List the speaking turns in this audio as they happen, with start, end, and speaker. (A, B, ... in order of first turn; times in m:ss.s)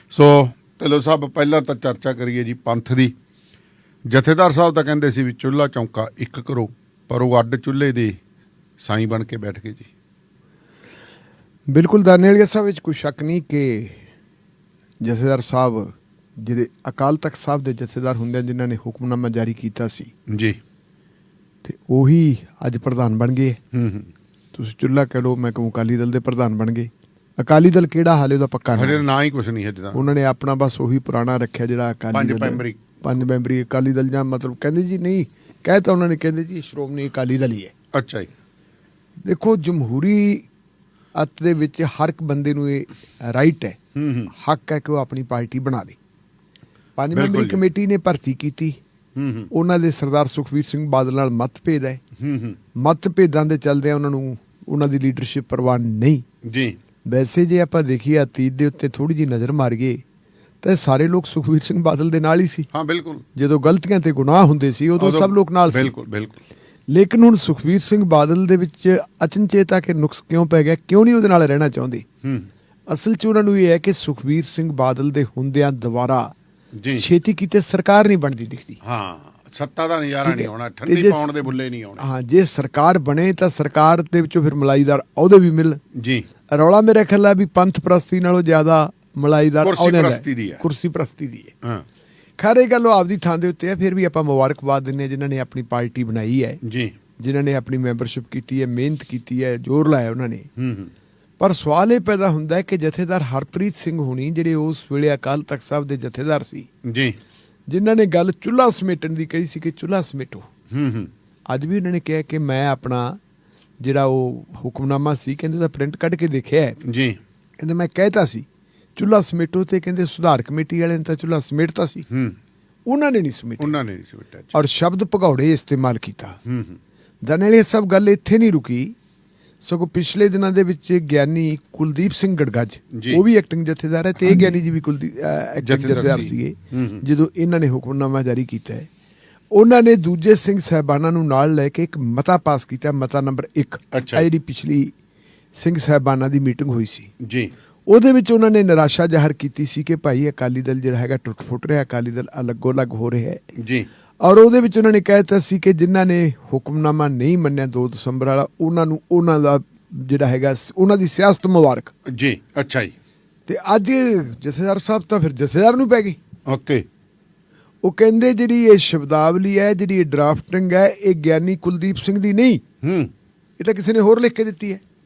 0:00.1-0:03.1 A
0:04.1-0:08.2 A
0:08.8-0:09.9 A
0:11.7-0:14.0 B
0:15.0-0:20.1 B
0:20.3-0:20.6 A
0:21.6-0:23.6 B
0:23.7-0:24.1 A
0:24.5-0:29.1 B
0:28.7-0:30.0 A
0:29.9-0:37.7 B
0:32.1-0:32.8 A
0:37.9-0:38.3 A
0:39.2-0:40.5 B
0:41.2-0:43.8 B
0:44.0-0:44.3 A
0:44.3-0:46.0 B
0:47.0-0:48.8 B
0:47.1-0:47.6 A
0:49.2-0:49.5 A
0:49.5-0:52.0 B
0:52.2-0:52.6 A
0:52.8-0:56.2 B
0:56.5-0:56.8 A
0:57.1-1:00.0 B
1:00.6-1:02.7 B
1:02.7-1:03.2 A
1:03.4-1:05.9 B
1:05.0-1:06.4 A
1:06.9-1:12.0 B
1:12.2-1:12.5 A
1:12.9-1:16.3 B
1:16.8-1:17.1 A
1:17.0-1:18.8 B
1:18.8-1:22.0 A
1:20.2-1:21.5 B
1:22.0-1:25.8 B
1:26.0-1:26.3 A
1:26.5-1:31.6 B
1:29.6-1:30.6 A
1:32.4-1:36.6 B
1:36.6-1:36.9 A
1:37.2-1:40.5 B
1:40.6-1:40.9 A
1:41.4-1:46.7 B
1:46.8-1:47.2 A
1:47.7-1:50.5 B
1:50.7-1:51.1 A
1:51.5-1:53.2 B
1:53.8-1:56.8 B
1:56.8-1:57.2 A
1:57.6-2:02.1 B
2:02.1-2:02.4 A
2:02.9-2:03.8 B
2:03.6-2:04.5 A
2:04.5-2:06.4 B
2:06.5-2:06.8 A
2:07.2-2:09.0 B
2:09.6-2:18.9 B
2:12.9-2:13.2 A
2:15.6-2:17.0 A
2:19.5-2:24.9 B
2:23.9-2:24.3 A
2:25.6-2:27.1 B
2:27.2-2:27.5 A
2:27.9-2:33.4 B
2:33.6-2:33.9 A
2:34.2-2:41.9 B
2:42.1-2:42.9 A
2:43.5-2:46.2 B
2:46.5-2:46.8 A
2:47.8-2:52.6 B
2:52.8-2:53.1 A
2:53.6-2:54.8 B